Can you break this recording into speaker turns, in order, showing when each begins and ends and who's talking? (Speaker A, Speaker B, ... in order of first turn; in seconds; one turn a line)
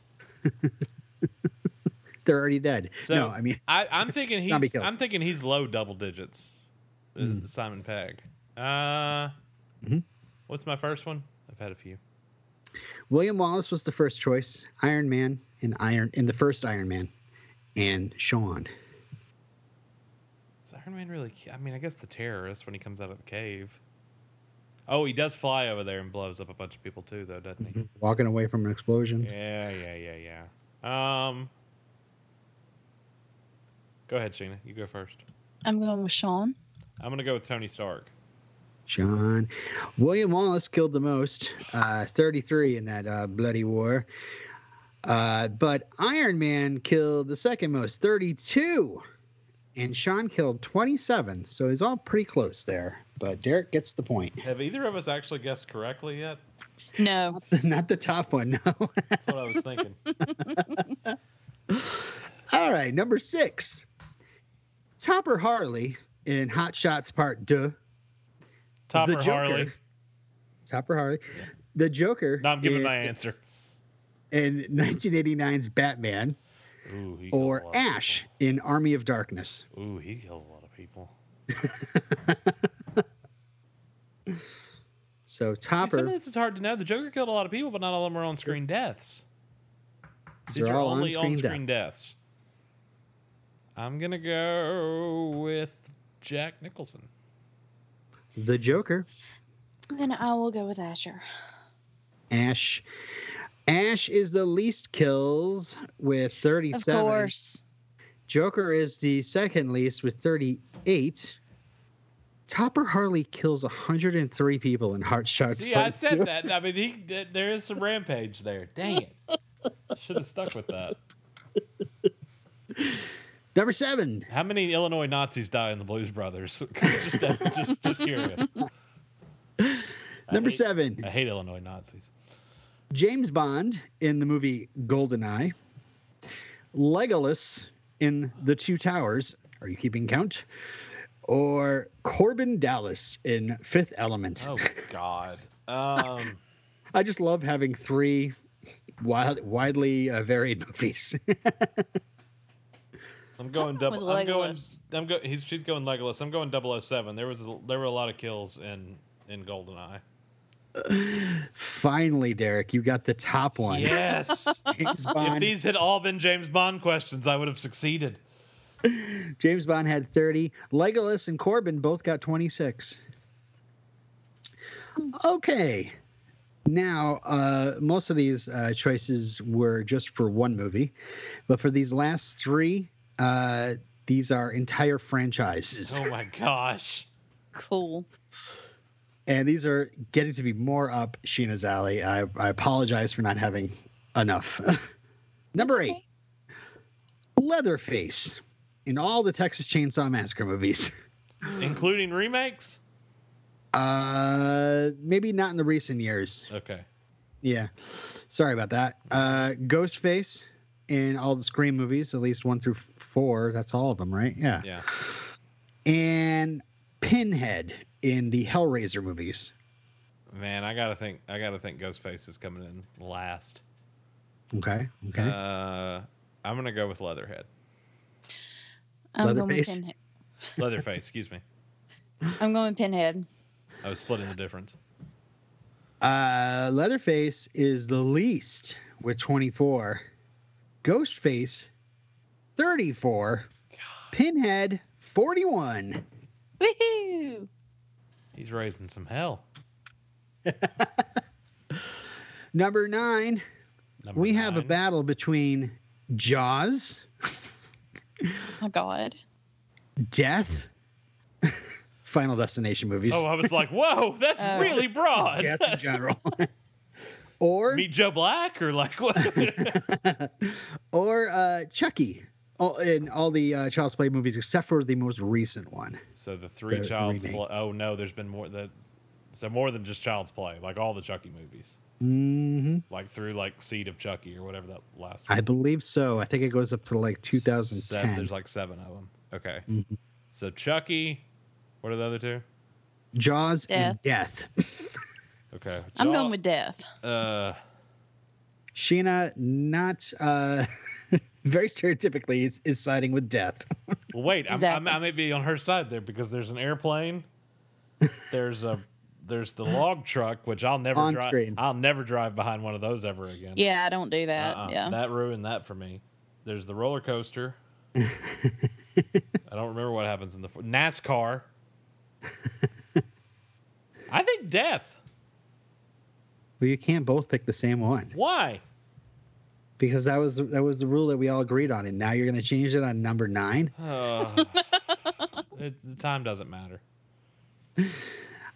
Speaker A: 2.2-3.6
Speaker B: 3.0-6.6
Speaker A: 4.4-4.9
Speaker B: 7.1-9.3
Speaker A: 7.2-7.4
Speaker B: 10.5-12.0
Speaker A: 13.1-17.1
Speaker A: 17.8-18.7
Speaker B: 20.7-23.8
Speaker B: 24.9-27.8
Speaker A: 27.6-29.3
Speaker B: 29.2-31.5
Speaker B: 34.1-35.2
Speaker C: 35.6-36.5
Speaker B: 37.0-38.1
Speaker A: 38.9-44.1
Speaker A: 45.0-49.0
Speaker A: 49.7-54.4
Speaker B: 54.4-56.4
Speaker C: 57.0-57.4
Speaker A: 57.4-59.2
Speaker B: 59.3-60.0
Speaker C: 60.2-60.8
Speaker A: 60.4-61.1
Speaker A: 61.7-63.9
Speaker A: 65.0-67.8
Speaker B: 68.9-69.7
Speaker A: 68.9-69.7
Speaker A: 70.7-73.1
Speaker B: 72.4-73.4
Speaker A: 74.3-76.4
Speaker B: 76.8-78.2
Speaker A: 77.3-79.7
Speaker B: 79.7-81.1
Speaker A: 81.6-82.5
Speaker A: 85.3-86.1
Speaker B: 85.7-89.2
Speaker A: 90.5-91.8
Speaker B: 90.5-92.2
Speaker B: 93.8-97.1
Speaker A: 98.4-99.1
Speaker C: 99.9-101.2
Speaker A: 102.3-102.8
Speaker A: 103.7-107.3
Speaker C: 106.7-107.6
Speaker A: 108.3-111.4
Speaker A: 112.5-116.3
Speaker B: 115.5-119.2
Speaker B: 119.9-121.0
Speaker A: 123.5-124.3
Speaker B: 124.3-128.6
Speaker A: 127.0-127.7
Speaker A: 129.6-131.1
Speaker B: 130.3-132.1
Speaker A: 132.9-135.5
Speaker A: 136.7-140.4
Speaker A: 141.3-144.9
Speaker B: 144.4-146.4
Speaker A: 146.9-148.3
Speaker A: 149.0-151.7
Speaker B: 153.4-160.0
Speaker C: 153.7-154.8
Speaker A: 160.8-164.0
Speaker B: 163.6-164.6
Speaker C: 164.6-164.9
Speaker A: 164.7-165.5
Speaker B: 165.1-168.2
Speaker A: 168.8-173.0
Speaker A: 175.1-175.9
Speaker A: 176.7-180.9
Speaker A: 181.5-186.1
Speaker B: 185.8-187.1
Speaker C: 187.5-188.1
Speaker A: 189.3-194.7
Speaker A: 195.5-196.0
Speaker C: 195.6-196.0
Speaker A: 197.4-200.9
Speaker C: 201.5-201.9
Speaker B: 201.6-202.8
Speaker A: 203.7-206.5
Speaker B: 206.5-206.8
Speaker A: 207.4-207.7
Speaker A: 208.3-215.1
Speaker A: 215.8-219.5
Speaker B: 220.3-223.6
Speaker A: 224.5-225.3
Speaker B: 225.2-227.5
Speaker C: 229.2-229.9
Speaker A: 229.2-229.8
Speaker B: 230.6-231.4
Speaker C: 232.4-233.3
Speaker B: 233.8-234.8
Speaker A: 236.0-240.0
Speaker A: 240.8-241.7
Speaker A: 242.6-243.5
Speaker A: 244.1-246.0
Speaker C: 246.6-247.5
Speaker B: 248.3-249.4
Speaker A: 250.5-250.9
Speaker A: 252.5-253.4
Speaker B: 254.0-254.8
Speaker A: 254.1-257.1
Speaker C: 258.6-259.2
Speaker A: 260.1-260.7
Speaker A: 261.4-263.5
Speaker B: 263.1-265.8
Speaker C: 264.4-264.8
Speaker A: 264.5-266.4
Speaker A: 267.4-267.9
Speaker B: 267.7-269.8
Speaker A: 269.3-276.0
Speaker B: 276.2-278.7
Speaker A: 276.7-277.4
Speaker B: 279.3-281.8
Speaker A: 282.0-282.8
Speaker B: 282.9-285.4
Speaker A: 285.3-288.3
Speaker B: 287.3-289.7
Speaker A: 289.7-289.9
Speaker B: 290.3-291.3
Speaker B: 291.8-292.4
Speaker A: 293.1-294.9
Speaker C: 293.7-294.0
Speaker B: 295.5-296.3
Speaker C: 295.9-296.8
Speaker B: 297.0-297.6
Speaker A: 298.8-300.7
Speaker A: 301.4-303.7
Speaker B: 304.1-307.3
Speaker C: 304.5-305.0
Speaker B: 308.3-313.6
Speaker A: 310.9-311.6
Speaker C: 313.6-315.0
Speaker B: 314.4-317.6
Speaker A: 318.0-318.7
Speaker B: 319.5-321.5
Speaker B: 324.1-325.0
Speaker A: 326.6-328.1
Speaker B: 328.1-328.6
Speaker A: 329.8-333.7
Speaker B: 333.8-334.6
Speaker B: 335.6-336.8